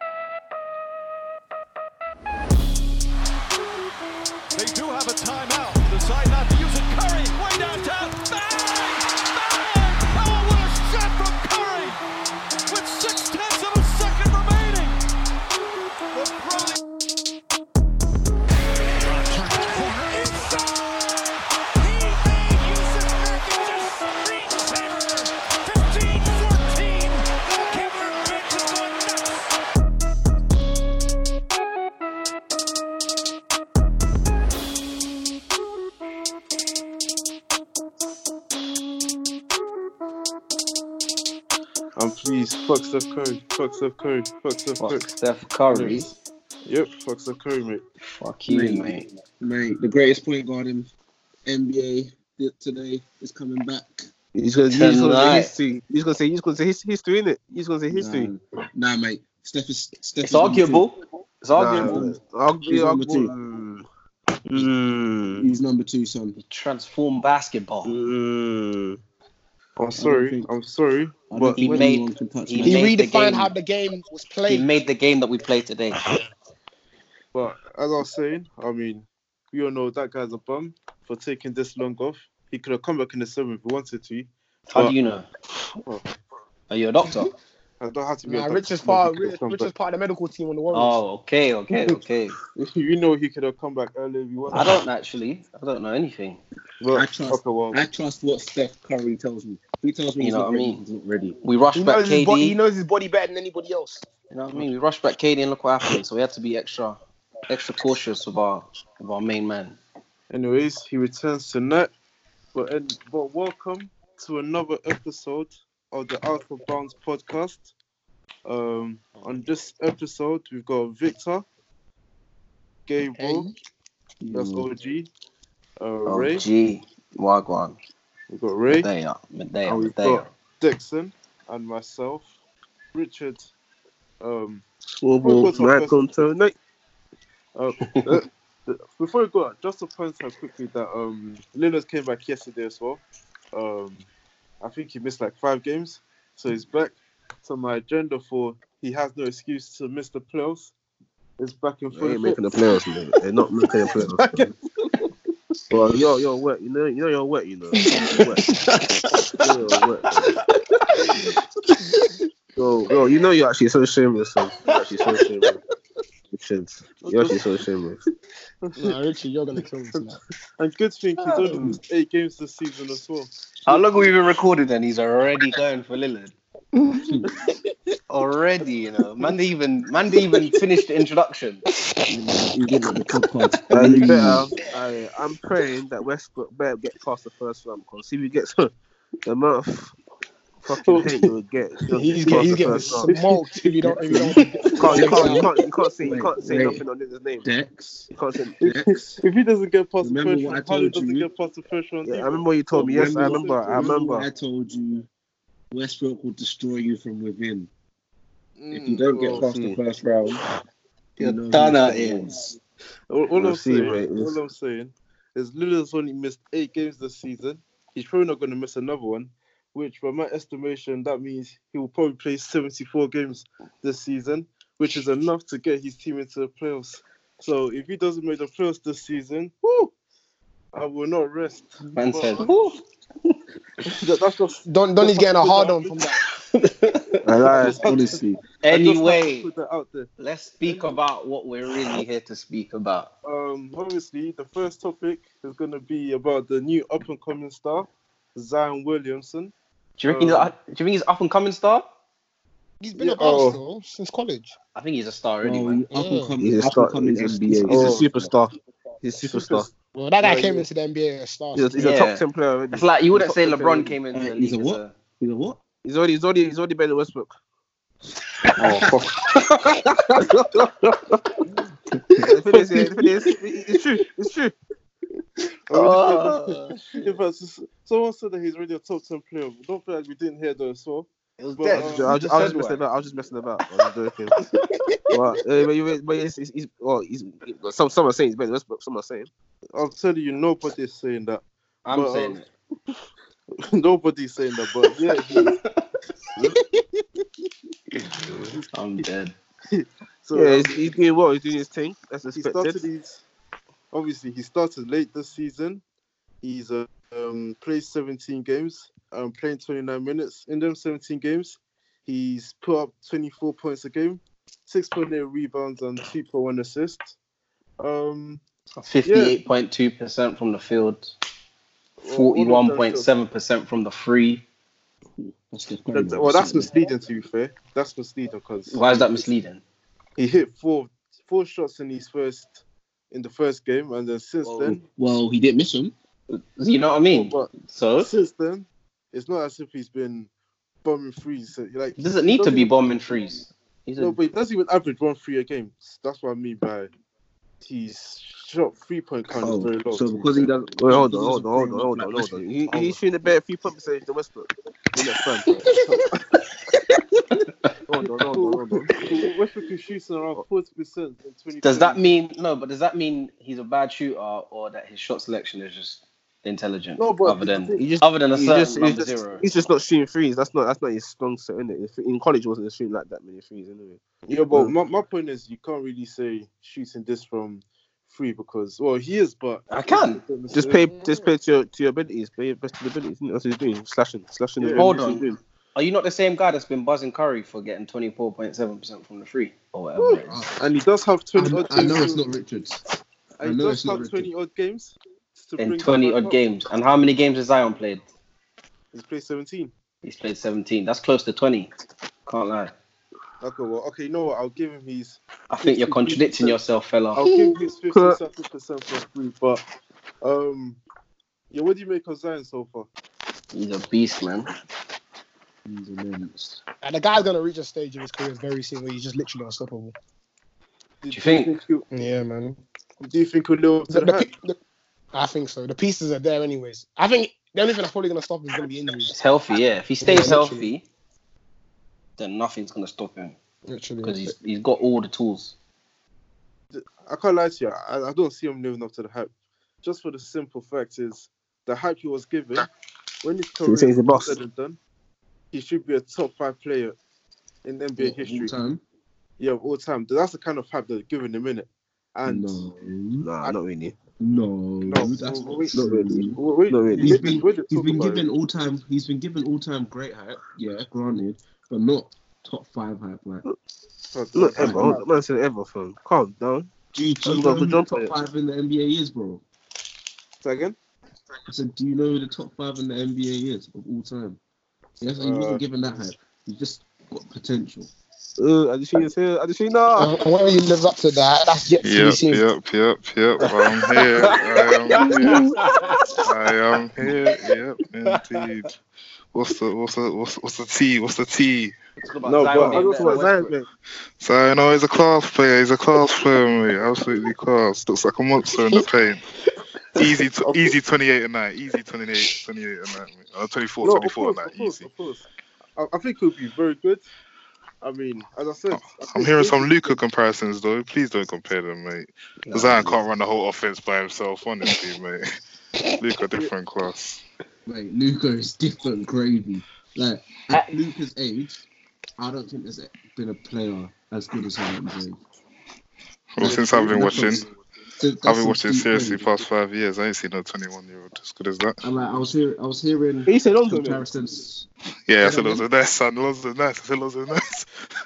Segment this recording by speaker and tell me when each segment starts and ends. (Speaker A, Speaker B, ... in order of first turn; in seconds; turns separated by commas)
Speaker A: 4.5-12.0, Speaker A: 12.7-15.0, Speaker A: 16.1-16.8, Speaker A: 19.0-21.2, Speaker A: 21.8-29.6, Speaker B: 42.0-45.1, Speaker C: 44.8-46.1, Speaker B: 45.7-46.1, Speaker B: 46.7-47.8, Speaker C: 48.0-49.1, Speaker D: 48.5-50.9, Speaker D: 51.5-54.1, Speaker E: 54.4-58.3, Speaker C: 54.7-55.5, Speaker D: 57.9-60.9, Speaker C: 60.2-62.1, Speaker E: 61.5-63.9, Speaker D: 61.8-62.1, Speaker D: 62.6-63.3, Speaker E: 64.5-65.5, Speaker D: 65.4-66.4, Speaker C: 66.4-68.0, Speaker E: 67.8-69.0, Speaker B: 69.8-71.6, Speaker D: 70.0-70.5, Speaker D: 71.3-72.9, Speaker C: 71.5-73.5, Speaker F: 72.6-74.7, Speaker C: 74.5-76.1, Speaker B: 77.3-85.0, Speaker C: 84.7-85.3, Speaker B: 85.8-86.2, Speaker C: 86.7-87.3, Speaker B: 87.8-89.7, Speaker F: 88.2-91.0, Speaker C: 90.7-92.4, Speaker B: 91.7-92.0, Speaker B: 92.5-94.8, Speaker C: 94.5-96.4, Speaker B: 96.8-97.8, Speaker D: 96.9-101.4, Speaker C: 100.2-100.8, Speaker C: 101.4-102.6, Speaker F: 101.7-104.1, Speaker C: 104.3-109.8, Speaker B: 110.3-111.9, Speaker B: 112.5-117.7, Speaker B: 118.5-121.5, Speaker B: 122.9-123.5, Speaker C: 123.2-123.5, Speaker D: 124.2-124.7, Speaker B: 124.3-125.1, Speaker B: 125.8-126.5, Speaker C: 126.0-127.8, Speaker B: 128.3-128.9, Speaker C: 128.7-130.3, Speaker B: 129.7-132.3, Speaker B: 132.9-133.5, Speaker B: 134.2-134.7, Speaker E: 135.0-136.6, Speaker B: 135.2-136.2, Speaker B: 137.6-143.0, Speaker B: 143.5-144.1, Speaker B: 144.6-150.7, Speaker B: 151.4-152.6, Speaker E: 151.9-154.5, Speaker E: 155.7-158.4, Speaker C: 157.8-159.4, Speaker E: 159.4-160.3, Speaker C: 160.1-160.4, Speaker E: 162.6-165.6, Speaker C: 162.9-163.2, Speaker C: 164.7-165.2, Speaker E: 166.3-168.0, Speaker B: 167.0-167.4, Speaker F: 168.8-170.2, Speaker B: 170.6-174.0, Speaker C: 171.3-171.7, Speaker C: 173.7-176.3, Speaker D: 177.0-177.3, Speaker C: 178.1-181.6, Speaker D: 182.1-184.4, Speaker E: 183.7-188.7, Speaker E: 189.3-189.9, Speaker E: 190.6-193.1, Speaker B: 190.8-191.3, Speaker F: 191.9-195.5, Speaker B: 192.2-193.2, Speaker D: 192.6-192.8, Speaker D: 193.8-194.3, Speaker C: 194.3-195.3, Speaker E: 194.8-197.5, Speaker D: 195.0-195.4, Speaker D: 196.0-196.8, Speaker D: 197.4-198.1, Speaker E: 198.1-198.6, Speaker B: 198.6-204.0, Speaker D: 198.6-199.2, Speaker D: 200.0-201.3, Speaker E: 202.1-204.3, Speaker D: 202.8-205.1, Speaker D: 205.7-207.7, Speaker B: 208.6-209.5, Speaker D: 208.7-210.4, Speaker E: 209.3-209.8, Speaker D: 211.2-212.6, Speaker C: 211.2-212.4, Speaker B: 213.1-229.9, Speaker E: 213.3-214.4, Speaker B: 230.7-232.5, Speaker C: 231.9-233.9, Speaker B: 233.8-236.0, Speaker F: 234.7-236.2, Speaker C: 236.3-237.2, Speaker E: 237.3-237.8, Speaker D: 237.3-238.4, Speaker B: 237.5-240.1, Speaker C: 238.6-239.5, Speaker C: 240.2-243.1, Speaker B: 240.6-241.0, Speaker B: 243.2-249.5, Speaker C: 250.0-251.9, Speaker B: 250.1-250.5, Speaker F: 252.8-254.6, Speaker B: 253.0-253.6, Speaker C: 254.8-255.8, Speaker D: 255.4-258.3, Speaker F: 255.9-256.4, Speaker E: 256.4-259.7, Speaker B: 257.7-258.0, Speaker F: 259.9-261.8, Speaker B: 260.2-260.6, Speaker E: 261.5-263.9, Speaker C: 261.8-264.9, Speaker D: 264.1-265.6, Speaker E: 265.8-267.3, Speaker E: 272.3-274.5, Speaker B: 275.7-282.2, Speaker C: 275.7-277.2, Speaker C: 281.4-282.8, Speaker E: 281.7-284.4, Speaker C: 284.3-285.1, Speaker E: 285.1-289.3, Speaker B: 289.7-292.4, Speaker C: 291.9-292.5, Speaker B: 293.6-295.6, Speaker C: 295.3-295.9, Speaker B: 298.3-299.1, Speaker C: 298.7-299.3, Speaker B: 299.7-300.9, Speaker E: 300.3-302.8, Speaker B: 302.3-303.2, Speaker B: 303.9-305.8, Speaker B: 306.4-317.1, Speaker B: 317.8-318.4, Speaker C: 318.8-321.1, Speaker B: 319.1-319.4, Speaker B: 322.0-323.1, Speaker C: 322.1-324.4, Speaker D: 325.2-326.7, Speaker B: 325.9-329.3, Speaker C: 328.7-329.6, Speaker B: 330.2-334.9, Speaker D: 334.9-335.9, Speaker C: 336.3-338.1, Speaker B: 337.1-340.3, Speaker B: 340.8-342.9, Speaker C: 342.0-344.2, Speaker B: 344.0-346.9, Speaker B: 347.6-350.5, Speaker D: 349.4-352.9, Speaker E: 350.8-355.7, Speaker E: 357.9-358.9, Speaker B: 357.9-362.1, Speaker C: 361.6-369.6, Speaker B: 367.0-367.8, Speaker E: 367.8-374.7, Speaker B: 374.3-380.9, Speaker C: 379.7-380.2, Speaker E: 380.5-385.4, Speaker B: 384.6-385.0, Speaker C: 384.8-390.4, Speaker B: 390.0-392.3, Speaker D: 390.2-390.6, Speaker D: 391.4-392.8, Speaker D: 393.4-394.3, Speaker B: 393.4-396.4, Speaker C: 395.6-398.0, Speaker B: 398.9-399.7, Speaker C: 400.0-401.7, Speaker C: 402.3-402.7, Speaker B: 403.4-406.6, Speaker C: 405.5-407.5, Speaker B: 407.1-409.6, Speaker E: 407.9-408.2, Speaker B: 410.2-410.8, Speaker B: 411.5-412.9, Speaker C: 413.5-414.5, Speaker D: 415.7-416.6, Speaker F: 416.8-419.9, Speaker B: 421.0-421.9, Speaker C: 421.1-421.6, Speaker F: 421.9-422.6, Speaker B: 423.0-424.3, Speaker F: 423.9-424.6, Speaker F: 425.1-429.2, Speaker C: 429.1-430.8, Speaker F: 430.0-430.7, Speaker C: 432.2-433.4, Speaker F: 433.7-434.4, Speaker C: 434.0-435.6, Speaker B: 436.7-442.7, Speaker B: 443.2-444.8, Speaker E: 443.6-444.4, Speaker B: 445.5-447.0, Speaker B: 447.6-448.5, Speaker D: 448.0-448.8, Speaker B: 449.4-452.6, Speaker D: 452.3-453.3, Speaker E: 453.2-454.0, Speaker D: 454.2-456.4, Speaker B: 454.8-458.3, Speaker E: 455.8-457.3, Speaker D: 457.0-463.4, Speaker B: 464.1-465.1, Speaker E: 464.4-466.7, Speaker D: 464.6-465.0, Speaker D: 466.9-469.4, Speaker E: 467.2-468.1, Speaker B: 470.4-470.8, Speaker D: 471.5-474.4, Speaker D: 475.0-477.9, Speaker B: 475.2-475.6, Speaker E: 478.4-480.1, Speaker F: 480.0-482.4, Speaker G: 481.8-485.5, Speaker C: 483.7-484.4, Speaker C: 484.9-486.0, Speaker G: 486.2-488.7, Speaker C: 488.1-488.4, Speaker G: 489.3-491.8, Speaker C: 492.0-493.5, Speaker B: 492.2-493.4, Speaker E: 492.5-493.7, Speaker G: 494.2-499.2, Speaker G: 499.9-504.9, Speaker B: 503.8-507.0, Speaker B: 507.8-510.0, Speaker G: 508.7-515.2, Speaker C: 512.5-513.0, Speaker G: 516.0-517.2, Speaker D: 517.7-521.6, Speaker D: 522.2-525.2, Speaker G: 526.4-527.5, Speaker D: 526.4-527.5, Speaker D: 528.0-529.3, Speaker G: 528.2-531.8, Speaker D: 531.8-534.7, Speaker E: 533.3-534.0, Speaker G: 535.1-537.7, Speaker D: 535.2-535.6